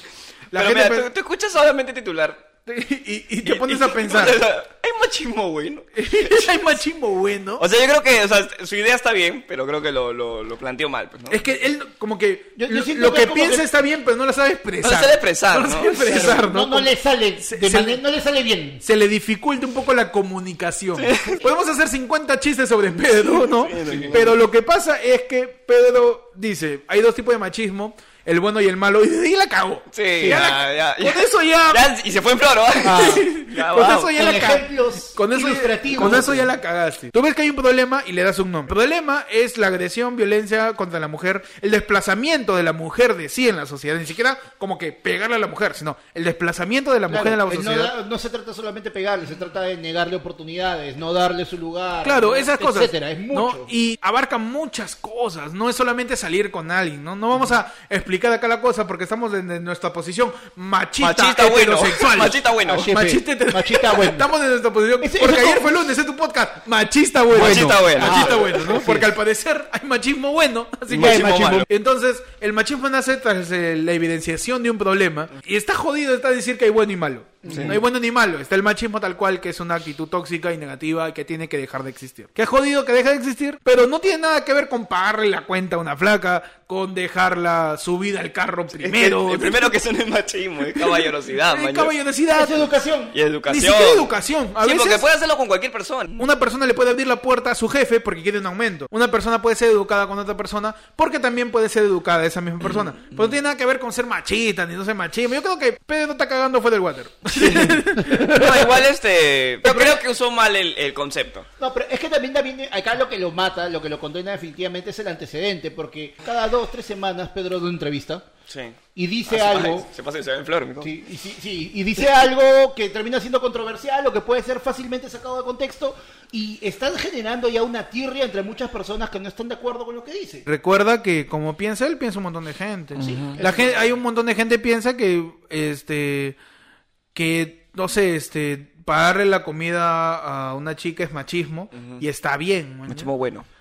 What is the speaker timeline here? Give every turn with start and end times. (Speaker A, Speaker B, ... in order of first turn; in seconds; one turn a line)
Speaker A: 0.5-1.1
Speaker B: 0.5-2.5
Speaker A: 2.7-4.5
Speaker B: 3.4-6.5
Speaker A: 6.0-7.6
Speaker B: 7.6-11.4
Speaker A: 11.3-18.0
Speaker C: 12.6-13.7
Speaker B: 14.8-16.3
Speaker C: 16.0-18.8
Speaker A: 18.8-31.9
Speaker B: 21.0-21.4
Speaker B: 23.4-24.3
Speaker C: 23.9-24.1
Speaker B: 29.9-34.2
Speaker C: 32.8-33.3
Speaker A: 32.9-47.9
Speaker C: 34.1-36.5
Speaker C: 47.1-53.7
Speaker A: 52.0-89.7
Speaker B: 61.0-62.9
Speaker C: 62.6-64.3
Speaker C: 65.0-65.7
Speaker B: 67.3-68.8
Speaker C: 67.3-69.1
Speaker B: 70.9-71.7
Speaker C: 70.9-71.7
Speaker C: 77.4-77.8
Speaker B: 77.5-77.8
Speaker B: 88.8-91.9
Speaker A: 90.8-92.7
Speaker C: 92.3-93.1
Speaker B: 93.1-96.2
Speaker A: 93.5-95.0
Speaker A: 96.2-108.5
Speaker B: 107.3-111.5
Speaker C: 108.0-108.6
Speaker C: 109.7-110.0
Speaker C: 111.6-118.2
Speaker B: 118.5-120.9
Speaker C: 118.9-119.9
Speaker C: 120.8-130.4
Speaker A: 130.4-136.4
Speaker C: 133.0-133.9
Speaker B: 133.0-133.4
Speaker A: 137.1-143.1
Speaker B: 141.7-142.0
Speaker B: 142.9-143.4